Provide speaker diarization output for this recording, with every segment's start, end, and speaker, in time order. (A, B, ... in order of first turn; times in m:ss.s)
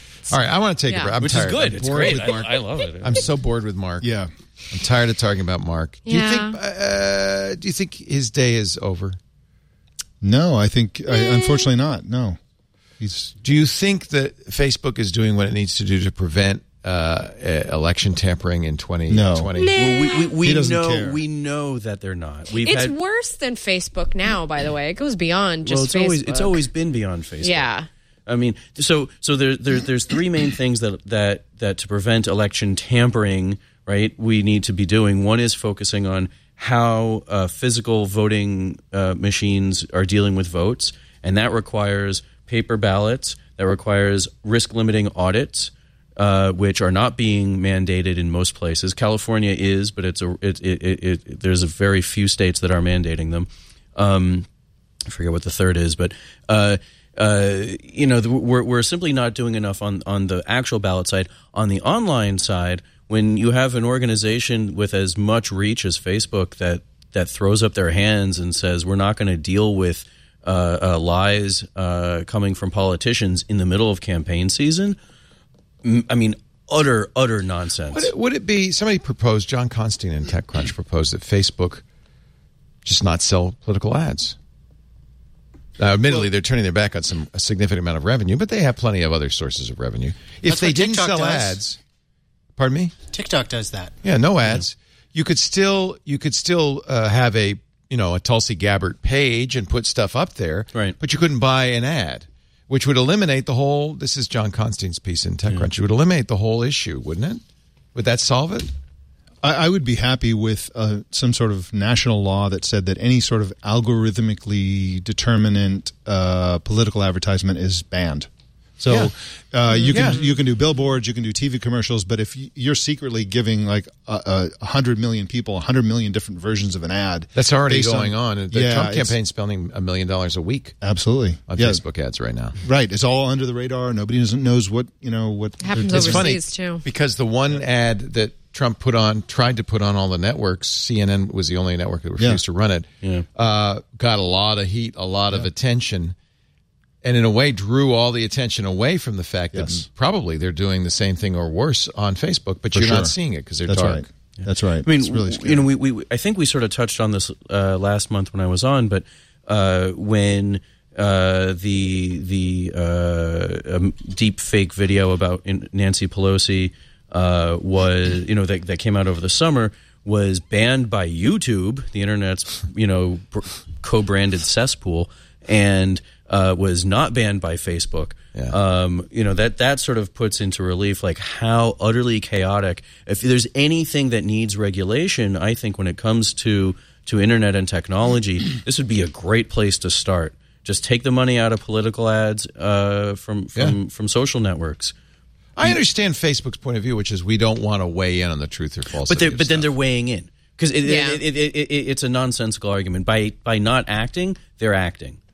0:00.3-0:04.1 A
0:00.9-0:01.2 B
0:01.2-0:03.3 C
0:04.0-0:04.3 D
0:04.7-0:09.2 A
0:06.1-0:06.6 B
0:10.2-0:12.4 D
0:11.1-0:11.7 B
0:13.0-0:13.3 D
0:13.4-0:19.8 A
0:19.1-0:19.5 D
0:19.6-0:20.3 B
0:19.8-0:23.0 C
0:20.4-0:21.2 D
0:22.6-0:26.6 B
0:25.6-0:27.7 C
0:27.4-0:27.9 B
0:28.3-0:54.5 C
0:55.1-1:15.0 C
1:15.8-1:18.1 C
1:17.9-1:21.8 A
1:22.8-1:24.4 A
1:25.8-1:31.8 A
1:30.5-1:31.6 E
1:32.6-1:33.0 A
1:33.1-1:34.0 E
1:34.0-1:47.4 A
1:48.0-1:48.7 A
1:49.4-2:09.2 D
1:59.7-2:00.2 B
1:59.9-2:00.3 A
2:07.4-2:10.8 A
2:10.8-2:11.8 D
2:11.5-2:12.6 A
2:12.6-2:16.3 D
2:15.6-2:16.8 B
2:15.9-2:26.2 A
2:27.0-2:34.0 A
2:29.5-2:29.8 D
2:32.7-2:35.7 D
2:34.8-3:14.9 C
3:15.6-3:19.7 A
3:19.0-3:25.2 C
3:20.8-3:21.2 B